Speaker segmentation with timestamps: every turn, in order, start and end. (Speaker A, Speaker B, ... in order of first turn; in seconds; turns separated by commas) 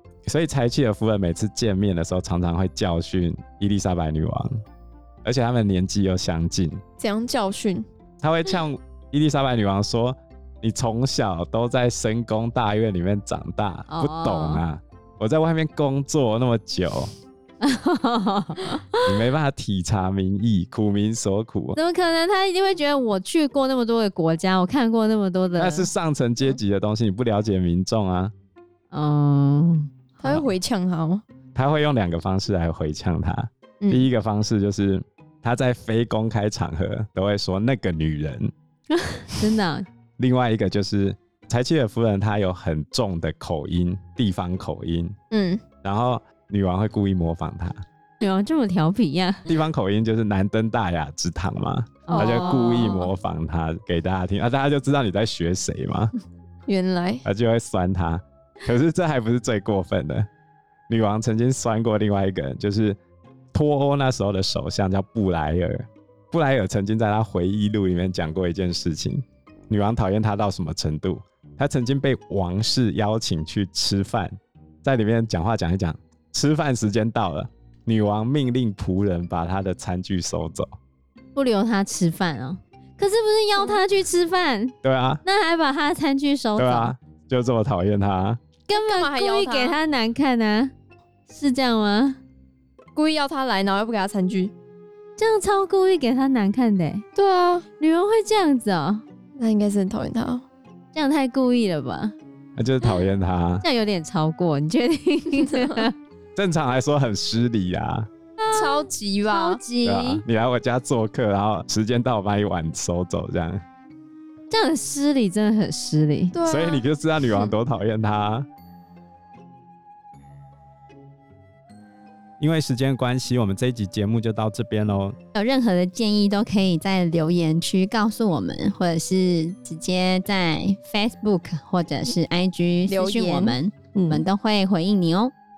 Speaker A: 0.2-4.5, Speaker A: 5.2-6.8, Speaker B: 7.0-7.8, Speaker A: 8.2-17.1, Speaker C: 13.9-14.6, Speaker C: 17.6-19.1, Speaker A: 19.1-21.8, Speaker C: 21.7-25.9, Speaker A: 25.6-28.3, Speaker C: 28.9-29.9, Speaker B: 30.2-31.2, Speaker A: 31.5-38.5, Speaker B: 33.8-34.1, Speaker C: 38.9-39.9, Speaker A: 40.2-45.1, Speaker B: 45.3-45.6, Speaker A: 45.8-47.8, Speaker C: 48.2-49.4, Speaker A: 49.5-56.1, Speaker C: 52.1-53.0, Speaker B: 52.1-53.0, Speaker B: 56.7-57.2, Speaker A: 57.2-60.3, Speaker A: 60.9-63.0, Speaker A: 63.5-80.7, Speaker C: 81.3-86.9, Speaker A: 84.8-85.2, Speaker A: 86.6-88.4, Speaker C: 88.7-90.7, Speaker B: 88.7-89.8, Speaker C: 91.3-92.2, Speaker B: 93.0-94.5, Speaker C: 95.2-97.0, Speaker B: 97.1-97.6, Speaker C: 97.8-99.0, Speaker B: 99.4-100.4, Speaker C: 100.9-102.1, Speaker A: 102.5-103.7, Speaker C: 103.6-105.9, Speaker A: 106.3-108.1, Speaker C: 108.4-110.2, Speaker B: 108.5-109.6, Speaker A: 109.8-113.6, Speaker C: 114.5-116.3, Speaker B: 116.3-117.5, Speaker A: 116.4-118.5, Speaker A: 122.4-125.2, Speaker C: 125.3-135.3, Speaker B: 132.8-134.2